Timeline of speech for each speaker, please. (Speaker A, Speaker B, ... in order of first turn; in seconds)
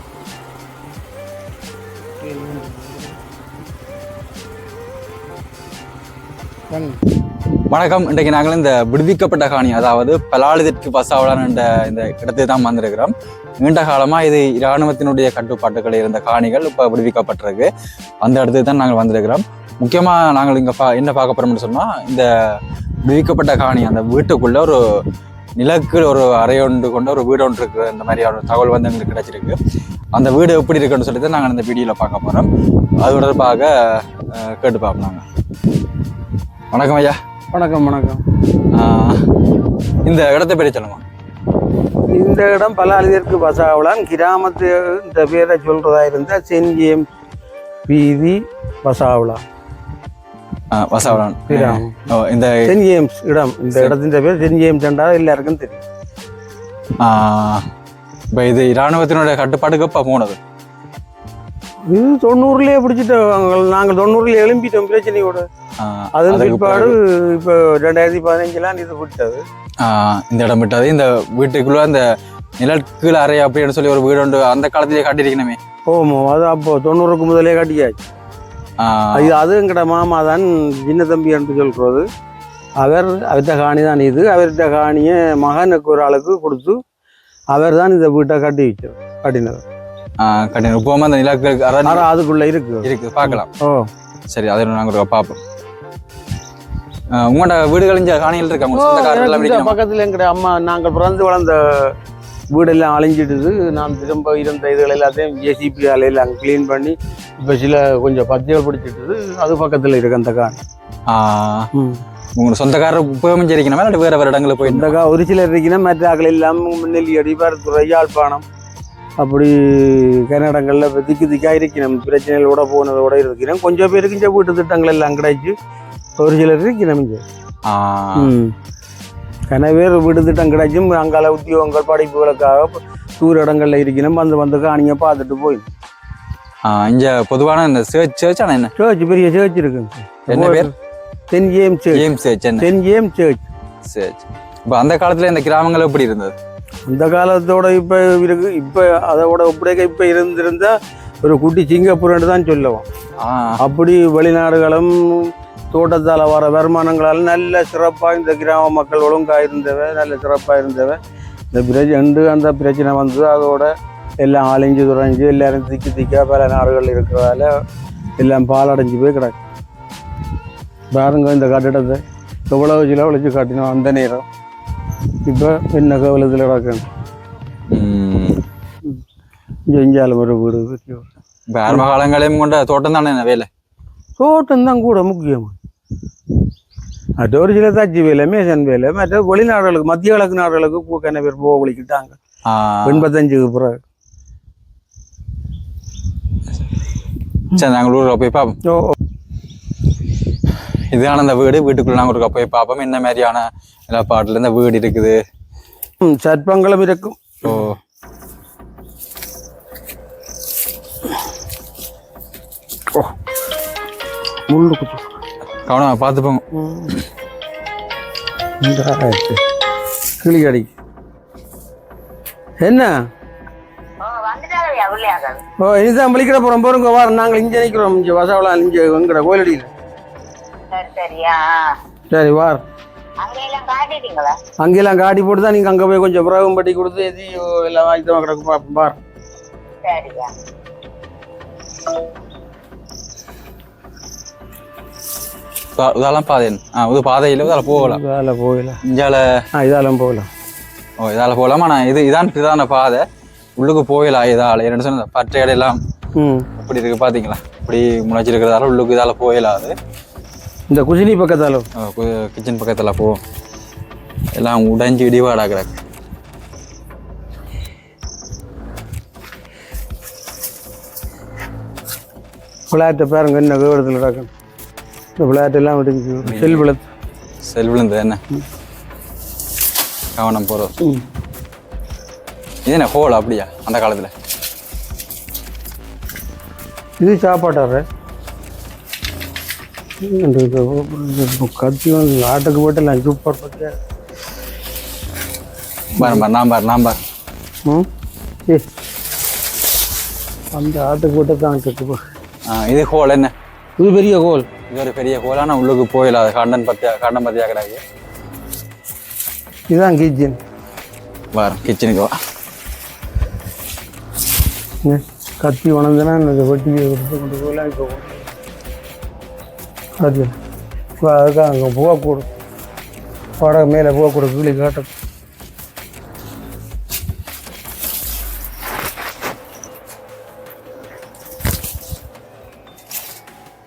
Speaker A: 2.2-3.2, 6.7-7.0, 37.5-38.2, 42.1-47.0, 47.9-49.4, 51.1-52.0, 52.7-55.8, 61.9-65.5, 66.2-69.4, 75.9-78.0, 79.1-82.1, 82.8-86.8, 87.5-89.6, 91.8-93.9, 98.7-101.9, 102.5-110.6, 111.8-112.0, 114.6-118.4, 119.2-125.5, 126.2-127.2, 128.2-128.5, 129.5-135.7, 138.8-140.7, 141.3-142.1, 142.6-143.5, 146.9-152.8, 153.6-161.0, 161.5-163.7, 164.2-167.5, 168.2-169.4, 170.9-174.2, 175.2-176.8, 179.7-181.1, 184.2-185.6, 187.2-192.2, 192.8-193.8, 198.7-198.9, 206.0-207.7, 214.5-215.1, 216.5-216.9, 218.6-219.4, 220.2-220.7, 222.6-222.9, 225.6-229.7, 232.1-232.6, 234.6-239.0, 247.5-248.8, 249.6-250.3, 256.2-256.5, 260.7-261.7, 272.7-274.3, 275.2-276.8, 287.0-287.8, 290.0-293.7, 296.0-296.2, 300.5-302.0, 303.8-304.5, 309.7-310.4, 314.8-318.3, 320.0-320.3, 321.0-322.3, 323.4-324.9
Speaker B: 7.7-17.7, 18.2-24.8, 25.6-29.6, 30.1-32.5, 33.0-35.2, 36.7-37.2, 38.7-39.3, 40.0-41.0, 50.7-52.6, 57.0-57.6, 58.3-60.4, 65.8-66.9, 69.8-72.0, 72.6-75.6, 78.8-79.3, 90.2-92.1, 92.8-93.5, 94.3-95.4, 97.1-99.8, 111.1-111.7, 112.4-114.9, 127.7-128.3, 136.6-138.7, 140.3-140.7, 141.9-142.7, 143.8-146.3, 153.2-153.6, 177.7-178.4, 181.5-183.5, 192.4-193.1, 197.5-198.6, 200.7-205.2, 207.4-207.8, 215.7-216.4, 245.8-248.0, 248.8-249.4, 251.0-253.0, 253.6-255.8, 256.6-259.8, 261.8-263.2, 264.4-265.8, 276.2-276.7, 277.5-278.2, 280.2-280.7, 282.6-284.1, 296.0-297.0, 302.5-303.3, 304.7-307.8, 311.3-312.1
Speaker C: 224.0-225.4, 230.7-231.7, 233.2-234.4, 239.8-240.3